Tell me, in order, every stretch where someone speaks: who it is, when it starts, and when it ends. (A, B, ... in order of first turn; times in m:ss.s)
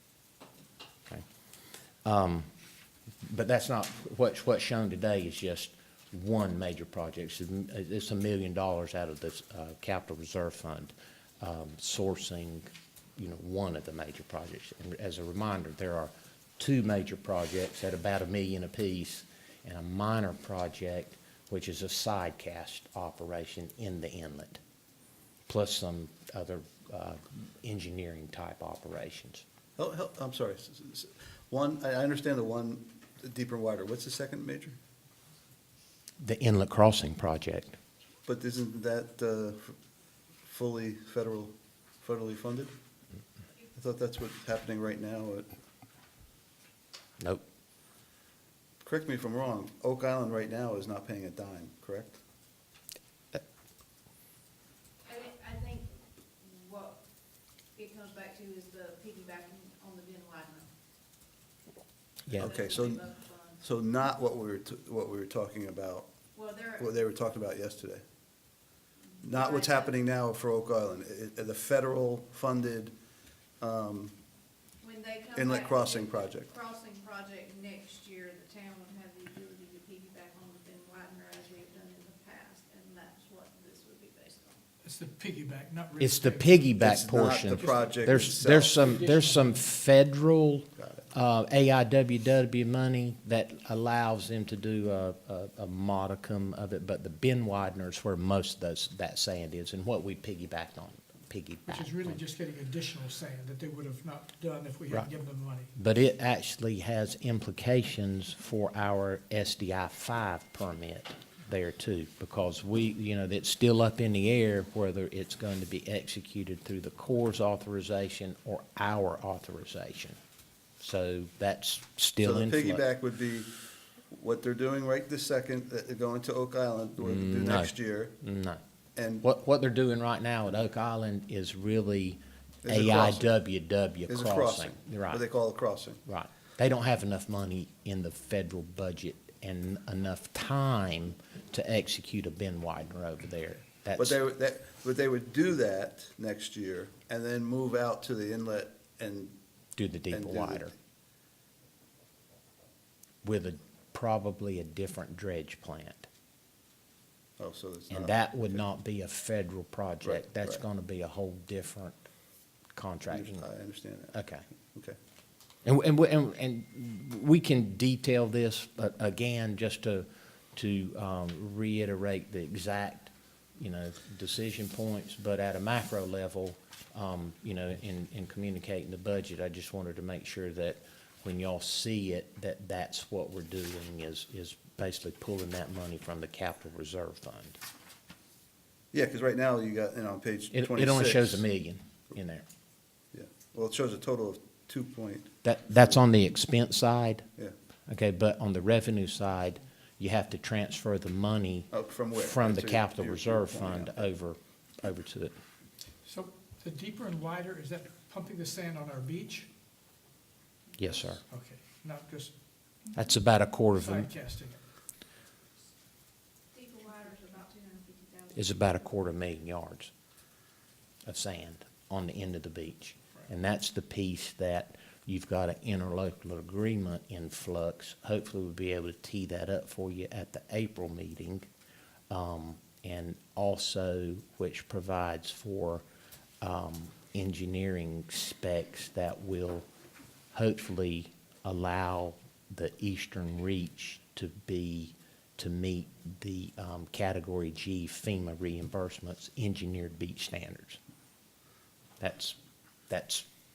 0:02.0-0:02.5 A
0:03.2-0:24.6 A
0:25.5-0:29.4 A
0:29.8-0:34.8 B
0:36.2-0:37.8 A
0:38.2-0:39.7 B
0:40.4-0:42.7 B
0:43.7-0:45.5 B
0:48.8-0:52.2 B
0:55.0-0:57.0 C
0:57.7-1:00.7 C
1:02.3-1:02.5 A
1:02.3-1:03.6 C
1:02.3-1:03.0 B
1:03.6-1:06.1 B
1:06.3-1:06.8 C
1:06.8-1:08.0 B
1:09.1-1:09.9 C
1:09.2-1:12.9 B
1:13.6-1:14.1 B
1:14.8-1:24.6 C
1:15.3-1:16.5 B
1:24.8-1:26.7 D
1:26.0-1:42.2 A
1:26.8-1:29.0 B
1:28.8-1:29.6 D
1:30.8-1:31.1 B
1:41.7-1:45.7 D
1:45.8-2:00.2 A
2:00.8-2:02.8 A
2:02.2-2:03.5 B
2:04.1-2:08.2 B
2:07.0-2:08.6 A
2:09.0-2:09.2 B
2:09.2-2:15.2 A
2:12.6-2:13.3 B
2:14.1-2:16.0 B
2:16.1-2:24.2 A
2:24.0-2:29.4 B
2:29.8-2:30.7 A
2:30.1-2:30.7 B
2:33.2-2:36.1 A
2:37.4-2:38.6 B
2:37.9-2:42.0 A
2:40.0-2:40.6 B
2:42.8-2:43.4 A
2:43.1-2:44.2 B
2:44.1-2:44.4 A
2:45.6-3:07.6 A
3:08.9-3:11.4 B
3:10.5-3:12.4 A
3:13.1-3:16.0 B
3:15.4-3:17.3 A
3:17.9-3:25.4 A
3:21.7-3:24.1 B
3:26.0-3:29.5 D
3:30.8-3:31.2 A
3:31.3-3:32.3 D
3:32.9-3:34.1 A
3:33.8-3:34.6 D
3:36.5-3:38.9 C
3:38.3-3:39.9 A
3:41.0-3:51.5 A
3:52.1-3:55.8 A
3:56.4-3:59.7 A
4:00.3-4:10.8 A
4:12.0-4:12.4 A
4:12.9-4:13.3 A